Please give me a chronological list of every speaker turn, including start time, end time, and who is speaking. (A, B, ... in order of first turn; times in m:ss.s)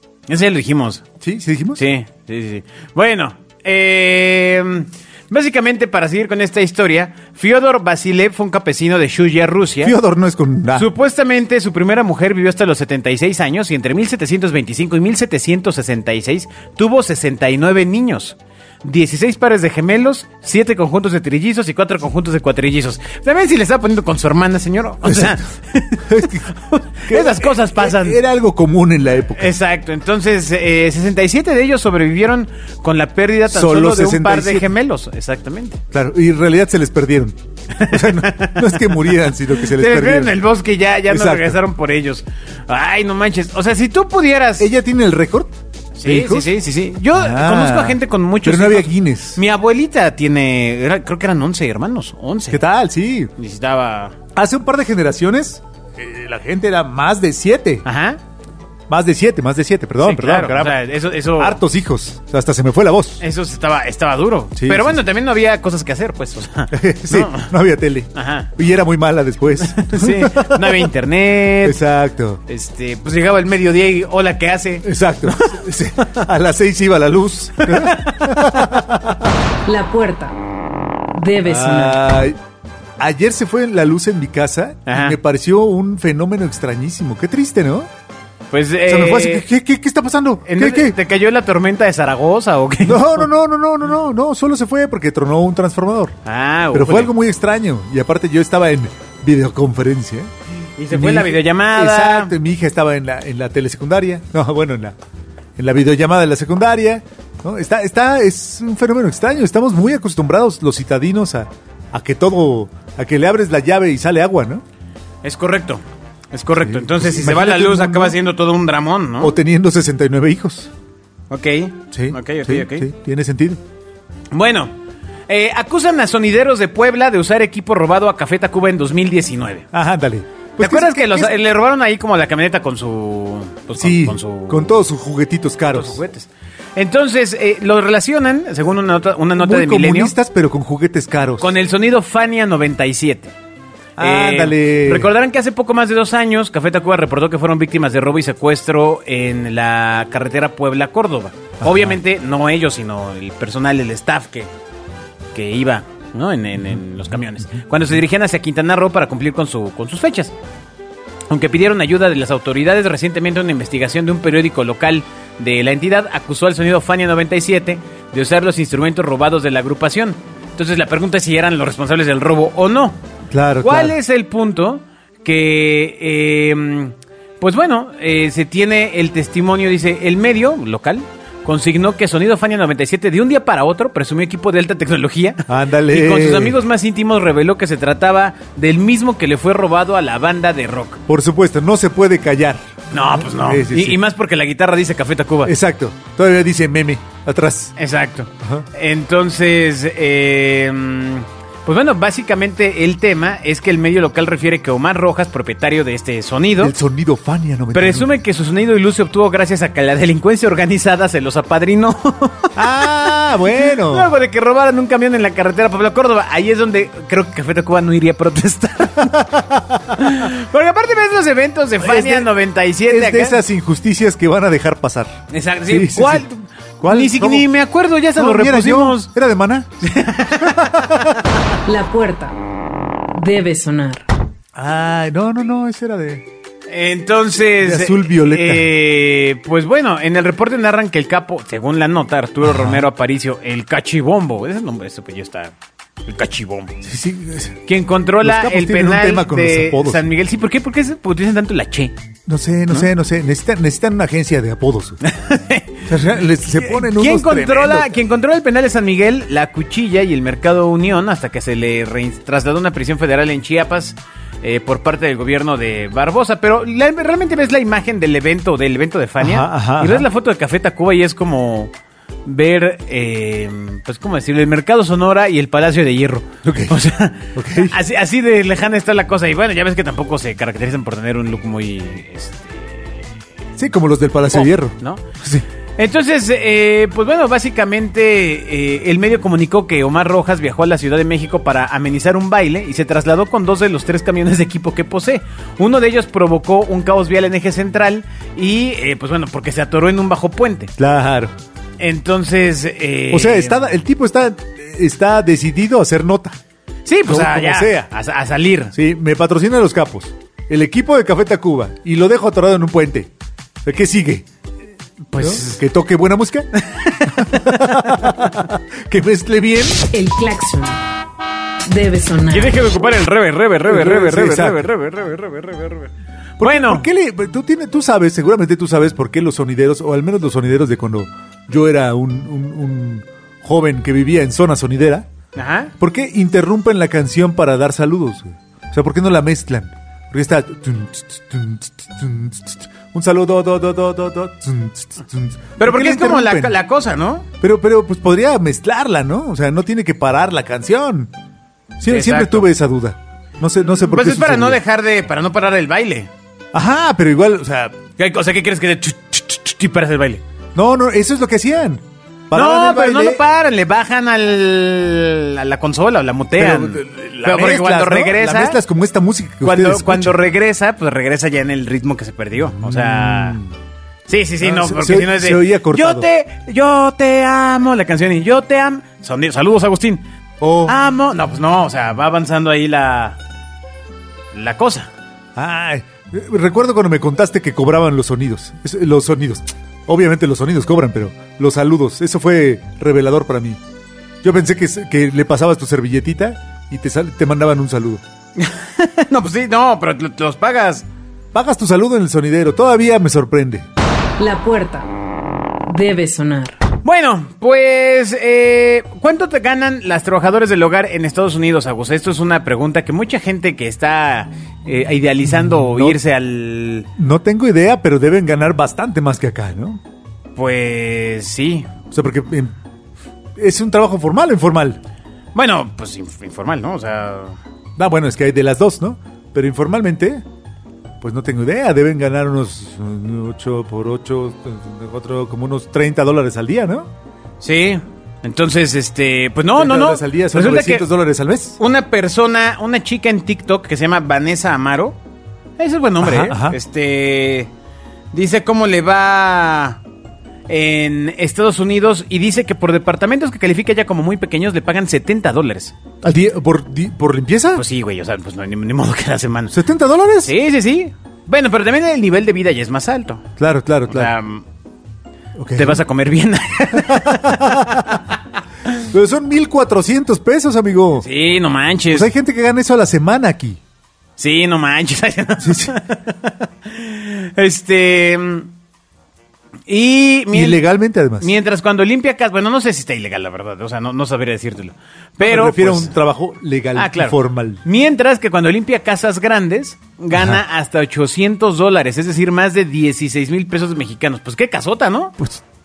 0:00.3-0:01.1 A
0:01.2-0:01.8 B
0:01.8-0:10.0 A
0:09.8-0:10.9 B
0:10.8-0:28.2 A
0:25.0-0:25.4 B
0:26.0-0:26.5 B
0:27.1-0:29.6 B
0:29.4-0:35.8 A
0:33.5-0:34.7 B
0:35.9-0:40.4 B
0:37.8-0:44.7 A
0:41.1-0:41.6 B
0:44.6-0:46.5 B
0:46.0-0:52.6 A
0:47.1-0:49.4 B
0:52.5-0:53.3 B
0:53.4-0:54.2 A
0:54.4-0:57.8 B
0:57.8-0:58.2 A
0:58.9-1:00.8 B
1:00.0-1:01.6 A
1:01.4-1:03.2 B
1:03.2-1:07.5 A
1:04.6-1:05.0 B
1:06.7-1:10.9 B
1:08.2-1:08.5 A
1:09.6-1:11.8 A
1:11.6-1:12.4 B
1:12.5-1:16.2 A
1:14.8-1:19.3 B
1:17.6-1:18.6 A
1:19.6-1:20.4 C
1:21.1-1:22.0 C
1:21.4-1:22.4 B
1:23.0-1:27.9 B
1:24.9-1:25.2 A
1:28.5-1:29.5 A
1:28.9-1:31.0 B
1:30.5-1:33.3 A
1:32.8-1:36.2 B
1:36.3-1:37.1 A
1:36.7-1:40.3 B
1:40.8-1:42.3 A
1:40.9-1:45.0 B
1:45.6-1:54.6 B
1:55.2-1:59.3 A
1:56.6-1:58.2 B
1:59.2-2:00.7 B
2:01.3-2:02.9 A
2:01.9-2:03.6 B
2:04.3-2:04.7 A
2:05.3-2:09.7 A
2:09.7-2:11.3 B
2:10.6-2:14.8 A
2:13.8-2:16.0 B
2:15.7-2:20.1 A
2:19.4-2:21.5 B
2:21.4-2:23.3 A
2:24.0-2:25.1 B
2:24.0-2:34.5 A
2:31.6-2:32.0 B
2:35.3-2:40.3 A
2:41.3-2:53.0 A
2:53.3-2:54.0 B
2:53.6-3:11.0 A
3:05.5-3:06.6 B
3:11.1-3:14.0 B
3:12.9-3:15.5 A
3:15.4-3:17.7 B
3:17.8-3:26.8 A
3:26.6-3:28.1 B
3:27.7-3:32.9 A
3:32.6-3:34.1 B
3:33.6-3:39.3 A
3:39.2-3:40.0 B
3:40.0-3:43.4 A
3:41.8-3:42.3 B
3:42.9-3:46.3 B
3:45.3-3:49.1 A
3:46.8-3:47.5 B
3:48.2-3:49.7 B
3:49.8-3:51.0 A
3:50.4-3:51.1 B
3:51.6-3:52.4 C
3:53.1-3:54.1 C
3:54.6-3:56.2 B
3:56.7-4:05.5 A
3:57.6-3:58.7 B
4:02.4-4:02.8 B
4:06.0-4:06.8 A
4:06.8-4:07.6 B
4:07.7-4:11.9 A
4:08.2-4:10.0 B
4:12.3-4:15.0 B
4:15.0-4:15.9 A
4:15.9-4:17.9 B
4:16.5-4:31.7 A
4:29.2-4:30.1 B
4:32.2-4:43.0 A
4:36.4-4:36.8 B
4:37.4-4:37.8 B
4:43.6-4:45.4 B
4:44.3-4:45.0 A
4:45.8-5:00.7 A
5:00.8-5:01.3 B
5:01.8-5:03.7 A
5:03.1-5:06.4 B
5:06.9-5:08.8 A
5:07.1-5:07.9 B
5:08.8-5:13.1 B
5:13.6-5:14.3 B
5:15.1-5:15.6 A
5:15.2-5:16.5 B
5:16.6-5:18.2 A
5:17.1-5:19.8 B
5:19.9-5:20.8 C
5:21.7-5:22.6 C
5:22.3-5:26.9 A
5:23.7-5:24.6 B
5:26.4-5:35.1 B
5:35.4-5:35.7 A
5:35.8-5:46.6 B
5:45.6-5:47.3 A
5:47.4-5:51.1 B
5:51.8-5:54.6 B
5:51.8-5:52.5 A
5:53.9-5:56.1 A
5:56.5-5:57.8 B
5:58.0-6:00.2 A
6:00.6-6:03.2 B
6:02.3-6:08.6 A
6:06.4-6:10.2 B
6:09.4-6:13.4 A
6:12.4-6:13.5 B
6:14.1-6:20.0 A
6:14.4-6:16.1 B
6:20.4-6:20.8 B
6:20.7-6:23.2 A
6:24.3-6:24.9 A
6:25.4-6:33.6 B
6:34.2-6:38.0 B
6:38.4-6:40.8 A
6:41.3-6:43.7 B
6:44.2-6:44.9 C
6:45.7-6:46.6 C
6:46.8-6:56.9 A
6:55.3-6:56.0 B
6:57.0-6:59.8 B
7:00.4-7:01.7 A
7:01.9-7:02.5 B
7:03.4-7:04.8 B
7:05.4-7:07.4 A
7:07.8-7:10.2 B
7:11.0-7:16.9 B
7:17.4-7:20.9 A
7:19.6-7:21.6 B
7:21.6-7:25.0 A
7:25.6-7:27.5 A
7:26.0-7:26.6 B
7:28.1-7:29.8 A
7:30.5-7:35.7 A
7:36.0-7:37.6 B
7:37.6-7:39.6 A
7:39.5-7:40.3 B
7:40.2-7:43.2 A
7:43.4-7:44.1 B
7:43.9-7:44.4 A
7:45.4-7:45.8 B
7:45.6-7:48.0 A
7:46.7-7:48.0 B
7:48.8-7:51.1 B
7:51.0-7:52.1 A
7:51.9-7:53.6 B
7:54.2-7:58.5 A
7:55.4-7:55.8 B
7:59.7-8:00.6 A
8:00.3-8:01.3 B
8:01.2-8:06.0 A
8:05.2-8:07.6 B
8:06.8-8:15.2 A
8:10.1-8:10.4 B